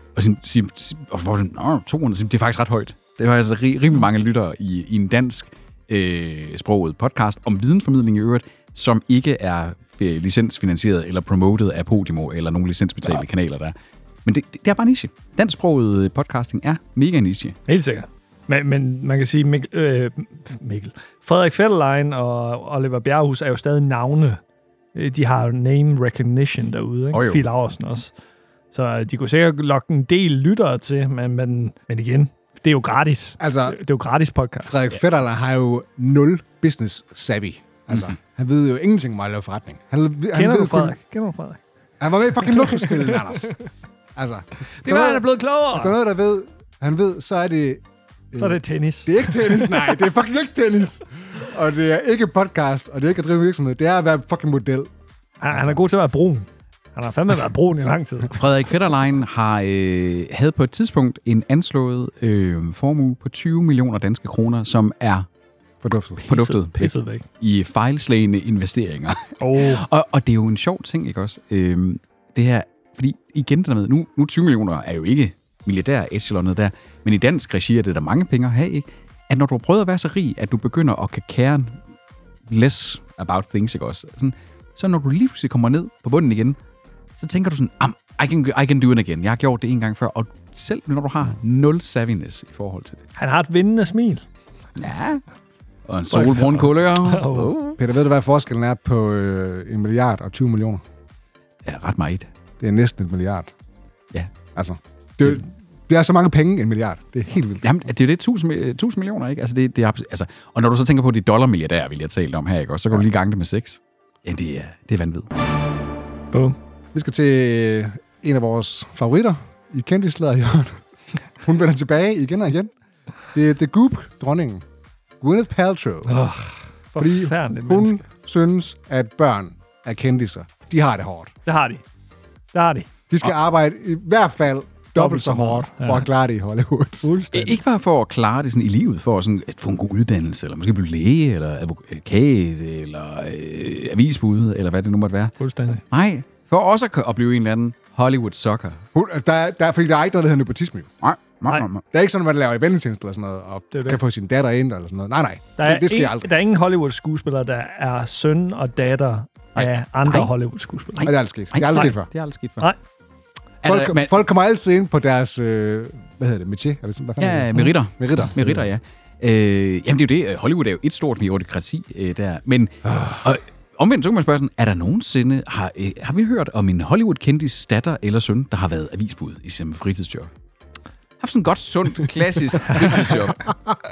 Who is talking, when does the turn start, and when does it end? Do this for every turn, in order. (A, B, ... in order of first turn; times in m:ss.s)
0:00.1-0:17.6 A
0:17.7-0:24.4 B
0:24.9-0:28.1 B
0:27.1-0:27.4 A
0:28.7-0:34.8 B
0:33.4-0:33.8 C
0:34.6-0:40.9 C
0:40.3-0:41.6 B
0:42.0-0:43.6 C
0:42.5-0:43.5 B
0:44.2-0:54.9 C
0:44.7-0:46.0 B
0:48.4-0:50.0 B
0:55.4-0:58.4 B
0:58.3-1:05.3 A
1:05.8-1:06.3 C
1:06.2-1:21.8 A
1:06.3-1:07.2 B
1:09.4-1:09.8 B
1:22.5-1:26.6 A
1:27.2-1:33.0 A
1:33.2-1:34.2 B
1:34.8-1:35.2 A
1:35.8-1:37.8 A
1:36.1-1:37.8 B
1:37.8-1:40.8 C
1:41.6-1:42.3 A
1:42.6-1:43.5 C
1:44.6-1:47.8 C
1:47.6-1:55.3 A
1:56.3-1:56.6 B
1:56.9-2:00.8 C
2:01.4-2:02.7 C
2:03.3-2:04.6 C
2:05.2-2:06.2 C
2:06.0-2:08.0 B
2:07.0-2:11.3 C
2:11.4-2:11.8 B
2:12.5-2:12.9 B
2:13.1-2:17.1 C
2:15.0-2:16.1 B
2:17.0-2:17.6 B
2:17.3-2:25.3 A
2:25.4-2:25.8 B
2:25.9-2:28.8 A
2:28.9-2:30.9 C
2:31.0-2:31.8 A
2:31.9-2:36.3 C
2:33.7-2:34.0 B
2:35.6-2:41.1 B
2:39.6-2:40.3 A
2:41.0-2:42.7 A
2:41.0-2:42.1 C
2:43.6-2:44.2 A
2:43.6-2:48.7 C
2:47.2-3:00.3 A
3:01.2-3:03.5 A